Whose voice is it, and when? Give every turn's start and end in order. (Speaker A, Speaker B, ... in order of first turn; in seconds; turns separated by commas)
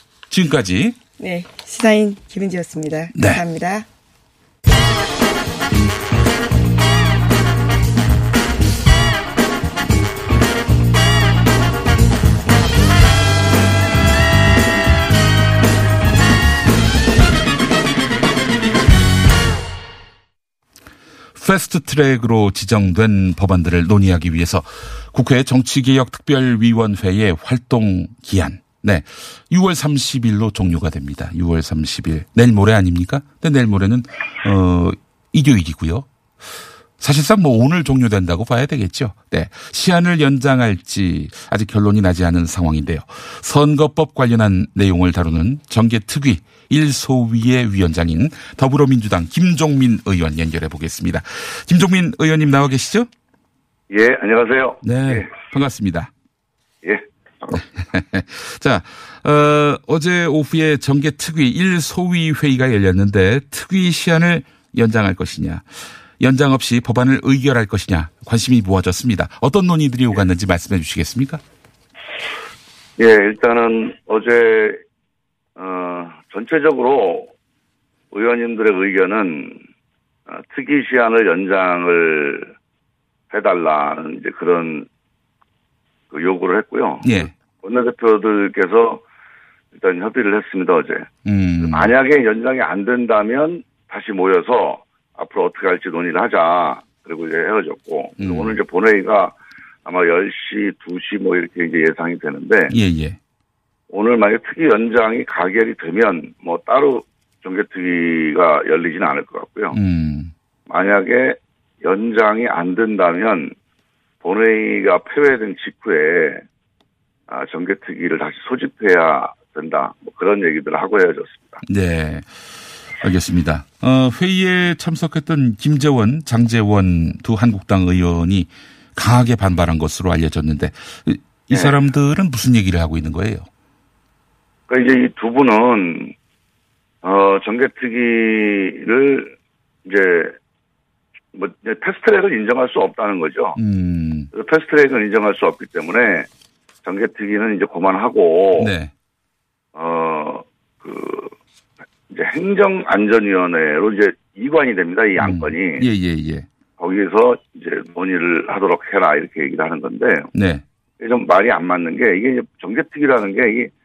Speaker A: 0.3-1.0, Speaker B: 1.2-3.9, Speaker A: 3.1-3.4, Speaker A: 21.4-36.1, Speaker A: 37.0-53.1, Speaker C: 53.9-55.3, Speaker A: 54.8-56.1, Speaker C: 56.8-57.6, Speaker A: 57.5-65.7, Speaker A: 66.2-71.4, Speaker C: 73.0-74.8, Speaker C: 75.6-77.3, Speaker C: 78.1-79.6, Speaker C: 80.3-82.5, Speaker C: 83.3-84.9, Speaker C: 86.1-89.0, Speaker A: 87.0-87.3, Speaker C: 89.7-91.1, Speaker A: 91.2-91.9, Speaker C: 91.6-99.3, Speaker A: 98.2-98.6, Speaker C: 99.8-102.7, Speaker A: 102.7-103.2, Speaker C: 103.9-109.8, Speaker A: 109.7-110.3, Speaker C: 110.7-113.5, Speaker C: 114.2-116.4, Speaker C: 117.3-121.6, Speaker A: 121.6-133.5, Speaker C: 134.7-136.1, Speaker C: 137.0-140.4, Speaker C: 141.3-143.6, Speaker A: 143.6-144.3, Speaker C: 144.3-146.3, Speaker C: 146.8-148.7, Speaker A: 148.6-148.9, Speaker C: 149.8-151.3, Speaker C: 152.1-155.8, Speaker A: 155.2-156.5, Speaker C: 156.8-160.3, Speaker A: 160.3-160.6, Speaker C: 161.0-163.7